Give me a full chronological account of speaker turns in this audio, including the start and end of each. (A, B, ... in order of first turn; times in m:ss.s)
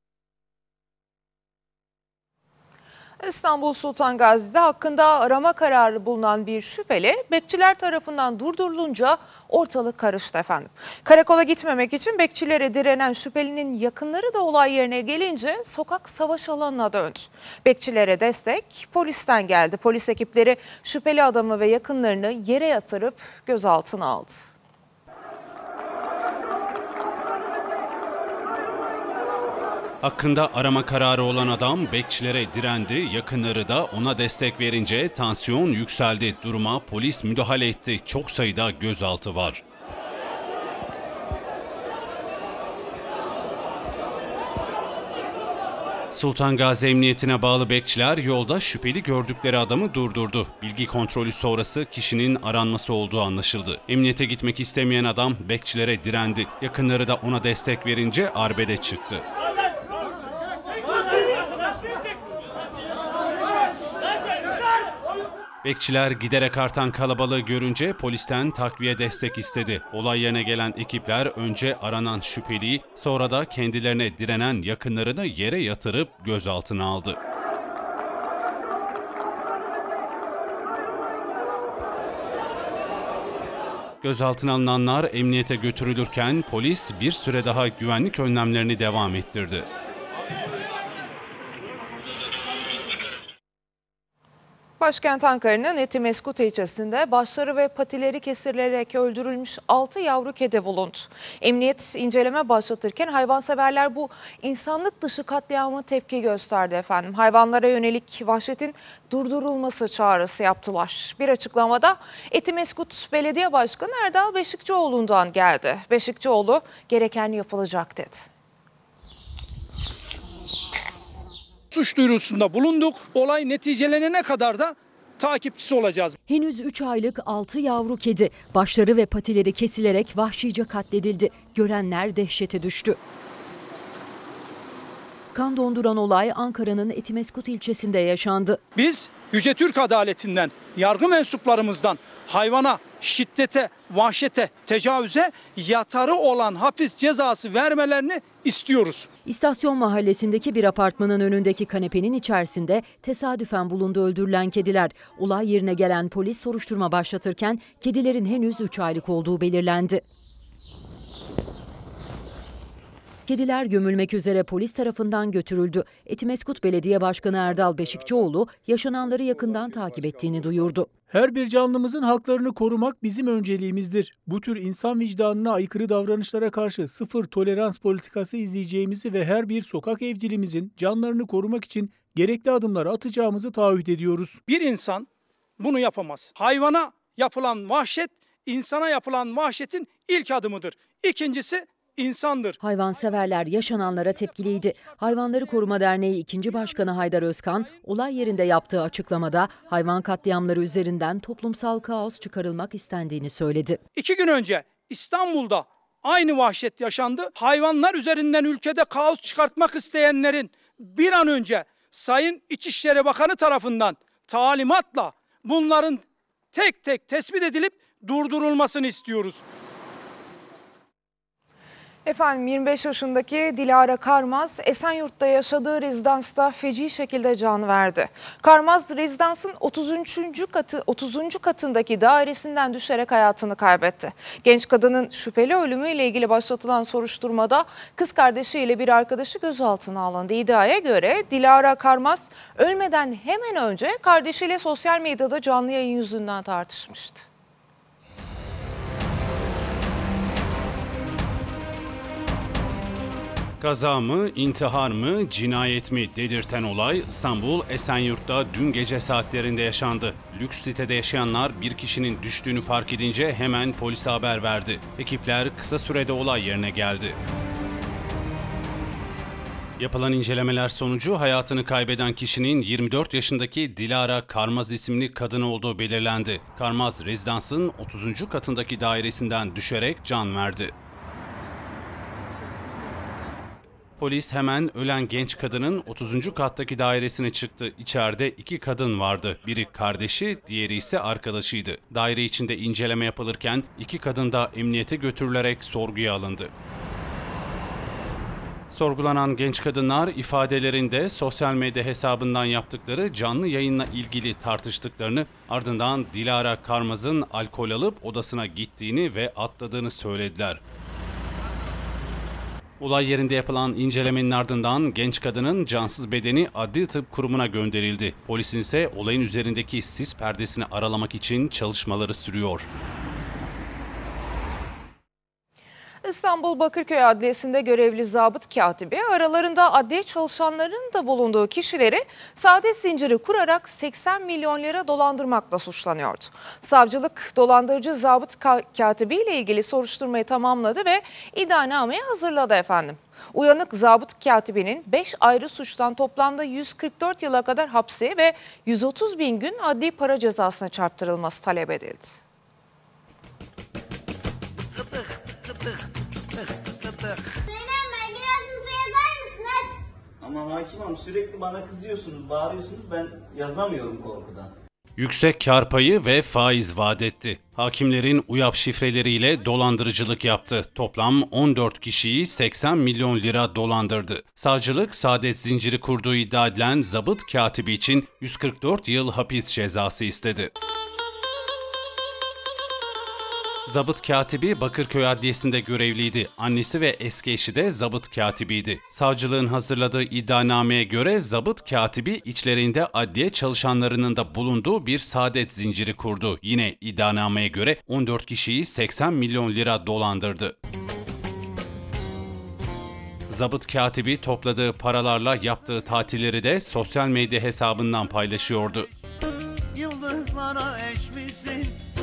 0:03.2-0:24.5 A
0:30.0-0:39.6 B
0:46.1-0:59.2 B
1:05.6-1:17.2 B
1:24.0-1:29.7 B
1:34.8-1:58.3 A
2:01.7-2:06.2 C
2:06.3-2:13.0 D
2:15.3-2:18.6 D
2:18.8-2:29.1 C
2:29.3-2:40.0 D
2:43.3-2:50.9 D
2:51.1-3:04.4 E
3:04.5-3:05.1 C
3:05.6-3:12.6 C
3:12.6-3:23.8 D
3:24.0-3:39.4 C
3:42.0-4:07.3 A
4:13.6-4:27.2 B
4:29.8-4:40.7 B
4:44.0-4:56.5 B
4:58.7-5:10.6 B
5:12.8-5:22.7 B
5:26.0-5:52.2 A
6:00.2-6:04.5 F
6:05.0-6:20.5 B
6:23.7-6:40.6 B
6:43.3-6:48.9 B
6:49.8-6:51.7 F